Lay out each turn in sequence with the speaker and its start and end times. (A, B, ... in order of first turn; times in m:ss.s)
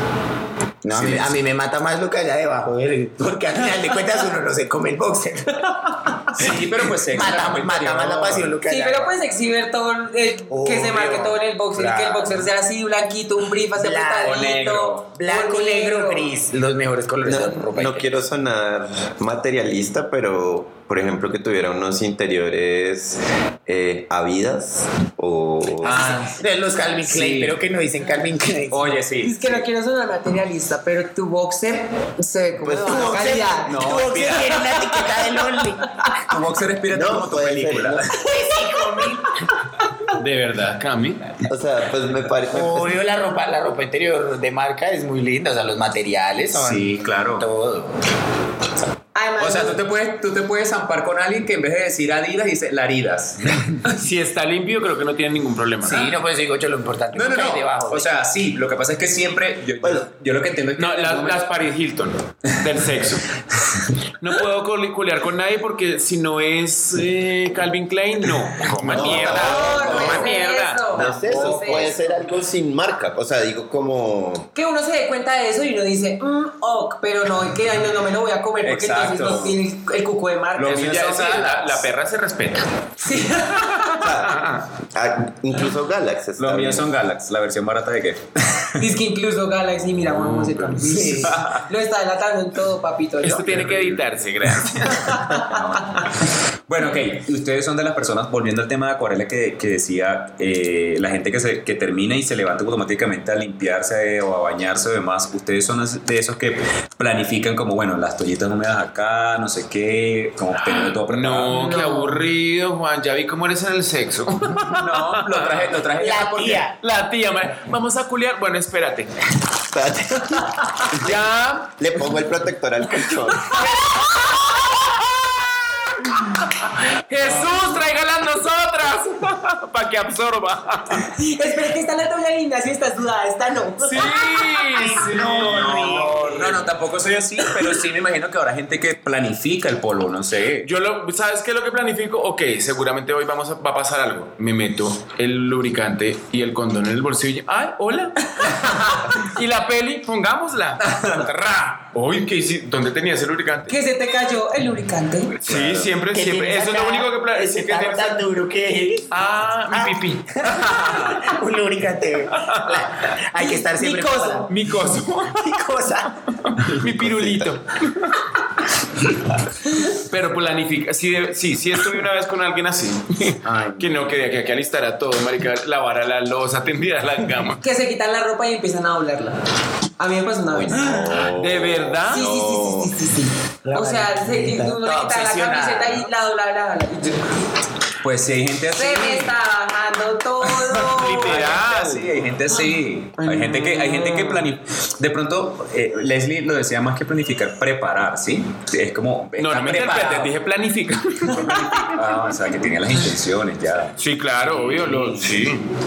0:00.8-0:09.1 A
0:00.9-0:01.3 B
0:06.3-0:08.5 B
0:08.7-0:16.4 C
0:10.5-0:12.5 A
0:13.7-0:18.1 A
0:14.2-0:15.0 B
0:17.2-0:26.1 D
0:25.8-0:26.4 B
0:26.3-0:29.0 A
0:27.0-0:27.6 B
0:28.7-0:29.6 B
0:29.2-0:35.4 C
0:32.6-0:33.5 D
0:32.8-0:35.9 A
0:33.6-0:34.7 B
0:36.2-0:38.2 B
0:36.9-0:38.1 D
0:38.1-0:39.4 A
0:40.1-0:41.4 E
0:41.5-0:42.9 D
0:42.5-0:47.9 A
0:46.5-0:47.4 B
0:49.1-0:49.8 C
0:49.4-0:53.8 B
0:53.8-0:56.0 E
0:55.8-0:58.1 A
0:57.1-1:01.4 B
1:00.8-1:03.3 E
1:04.2-1:11.0 E
1:08.7-1:10.3 B
1:08.9-1:09.6 D
1:09.1-1:10.0 A
1:09.2-1:12.2 C
1:10.9-1:14.5 D
1:11.0-1:11.9 B
1:14.5-1:20.9 C
1:18.6-1:19.6 B
1:20.6-1:21.8 B
1:20.6-1:22.7 E
1:23.0-1:24.1 C
1:23.9-1:26.9 D
1:24.0-1:24.7 E
1:26.4-1:28.9 B
1:28.8-1:33.6 C
1:30.1-1:30.8 E
1:30.8-1:31.4 A
1:31.1-1:31.7 B
1:33.2-1:35.3 E
1:33.4-1:34.0 B
1:34.9-1:36.1 C
1:35.4-1:36.1 B
1:36.7-1:51.6 B
1:50.6-1:55.7 E
1:51.5-1:52.2 C
1:54.6-1:56.6 B
1:55.9-1:56.8 A
1:56.8-1:59.1 E
1:59.7-2:01.2 D
2:00.9-2:01.8 E
2:01.8-2:03.7 D
2:05.6-2:11.1 E
2:11.0-2:14.4 C
2:13.8-2:16.5 E
2:14.6-2:16.6 A
2:15.2-2:20.7 B
2:20.6-2:33.8 E
2:30.8-2:31.3 B
2:33.7-2:35.4 C
2:35.4-2:38.2 E
2:35.4-2:35.9 B
2:36.1-2:39.2 A
2:39.1-2:40.9 E
2:39.7-2:44.6 A
2:42.3-2:42.8 E
2:43.8-2:44.5 C
2:44.5-2:45.6 E
2:45.2-2:46.3 A
2:46.4-2:48.2 E
2:47.0-2:47.4 D
2:49.6-2:49.9 C
2:49.9-2:57.6 E
2:53.4-2:54.0 A
2:57.6-2:59.4 C
3:00.0-3:01.2 C
3:00.5-3:02.9 D
3:01.2-3:02.3 E
3:02.0-3:07.3 C
3:03.6-3:06.1 A
3:08.0-3:09.4 B
3:08.7-3:11.5 C
3:10.5-3:20.3 B
3:10.8-3:12.1 E
3:13.2-3:14.5 C
3:19.4-3:22.0 E
3:21.3-3:25.5 B
3:21.5-3:21.8 C
3:24.0-3:25.6 E